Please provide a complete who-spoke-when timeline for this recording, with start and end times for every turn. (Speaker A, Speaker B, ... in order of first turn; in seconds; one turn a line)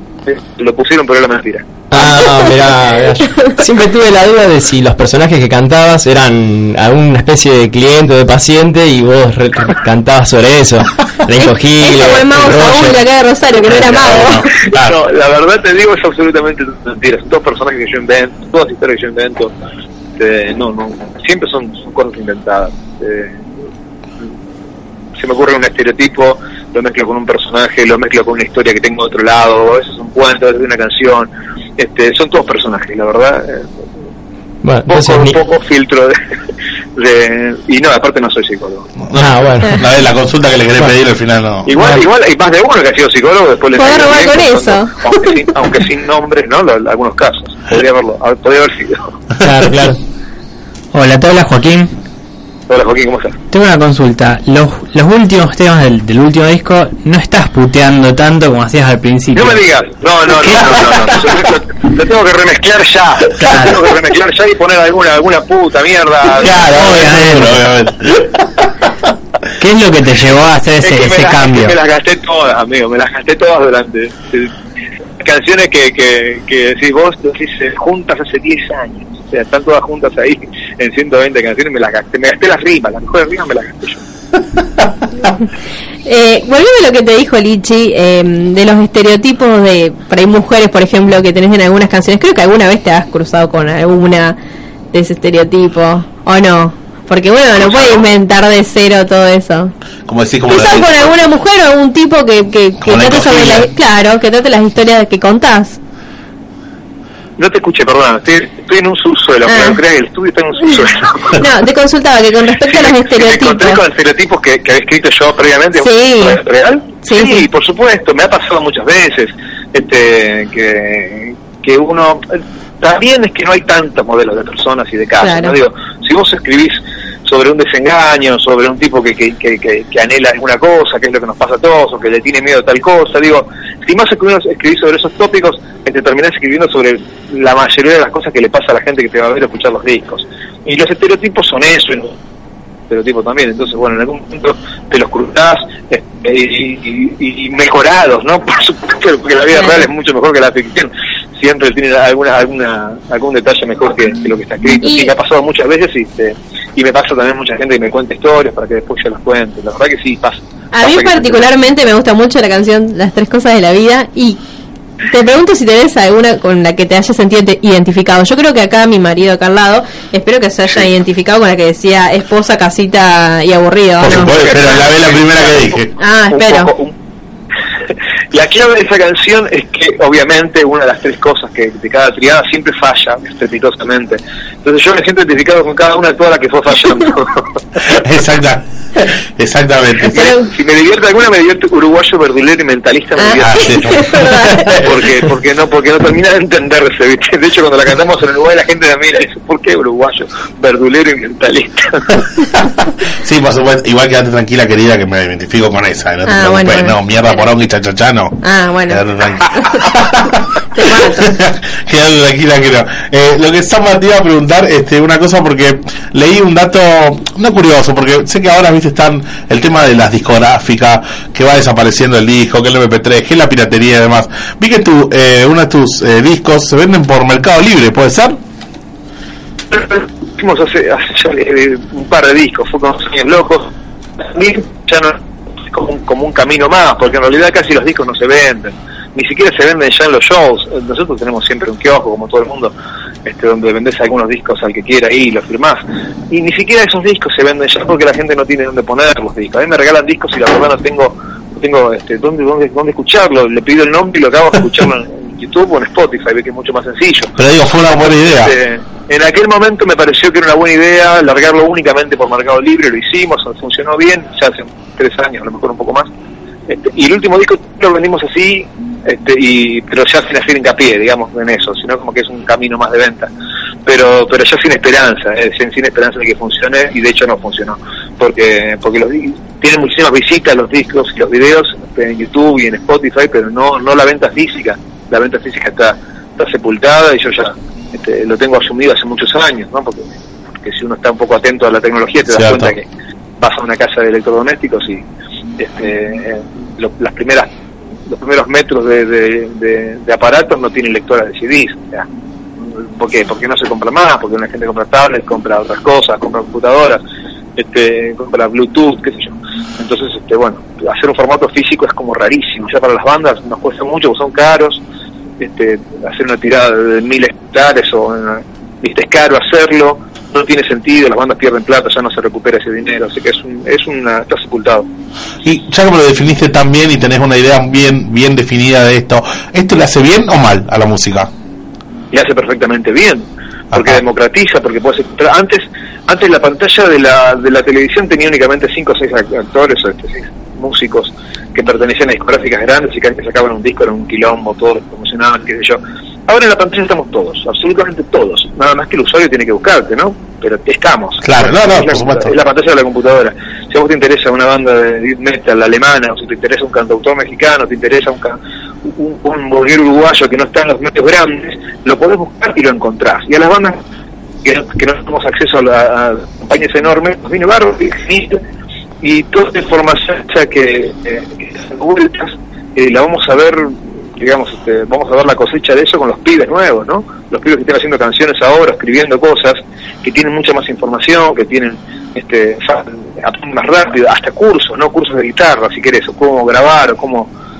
Speaker A: 0.2-1.7
Speaker B: 1.9-13.0
Speaker C: 11.8-14.5
Speaker D: 13.7-15.0
Speaker A: 14.8-19.5
Speaker A: 20.2-23.5
Speaker A: 25.2-33.7
Speaker B: 34.6-35.4
Speaker A: 34.9-36.2
Speaker A: 37.0-38.9
Speaker D: 39.0-41.7
Speaker B: 39.1-39.8
Speaker A: 41.6-49.2
Speaker C: 43.7-45.3
Speaker E: 49.4-49.9
Speaker B: 49.5-49.9
Speaker E: 50.9-51.9
Speaker A: 52.7-53.4
Speaker E: 53.5-59.6
Speaker A: 59.3-66.5
Speaker E: 63.4-63.9
Speaker D: 66.4-68.7
Speaker E: 66.7-67.6
Speaker E: 69.6-71.7
Speaker A: 70.8-74.5
Speaker A: 75.2-84.0
Speaker C: 86.0-94.4
Speaker C: 94.9-99.7
Speaker A: 97.6-98.0
Speaker D: 100.1-101.1
Speaker C: 100.5-105.8
Speaker D: 102.8-103.7
Speaker A: 107.4-111.4
Speaker C: 109.5-109.8
Speaker C: 111.3-113.8
Speaker A: 112.6-142.2
Speaker C: 115.8-116.4
Speaker C: 117.0-117.5
Speaker C: 125.2-125.5
Speaker A: 142.9-161.5
Speaker C: 149.5-149.9
Speaker C: 154.8-155.1
Speaker C: 160.7-164.4
Speaker C: 165.1-174.8
Speaker D: 174.0-175.9
Speaker A: 174.2-176.9
Speaker C: 176.0-176.7
Speaker A: 178.3-187.4
Speaker D: 187.8-190.2
Speaker A: 190.1-193.8
Speaker C: 190.1-190.5
Speaker C: 193.2-194.9
Speaker D: 193.4-195.0
Speaker A: 194.8-202.2
Speaker D: 203.2-228.4
Speaker C: 206.2-207.4
Speaker C: 208.4-209.0
Speaker C: 209.5-209.9
Speaker C: 210.7-211.3
Speaker A: 229.7-242.7
Speaker A: 243.2-257.3
Speaker D: 257.4-258.5
Speaker A: 258.0-266.1
Speaker A: 266.7-273.3
Speaker A: 273.9-292.9
Speaker D: 292.3-292.7
Speaker A: 293.4-295.0
Speaker A: 295.6-297.5
Speaker A: 298.1-302.1
Speaker A: 302.7-307.0
Speaker A: 307.6-314.8
Speaker A: 315.4-324.9
Speaker D: 325.4-331.3
Speaker A: 332.1-363.8
Speaker D: 333.7-334.0
Speaker D: 351.2-352.3
Speaker A: 364.4-368.4
Speaker A: 369.0-387.3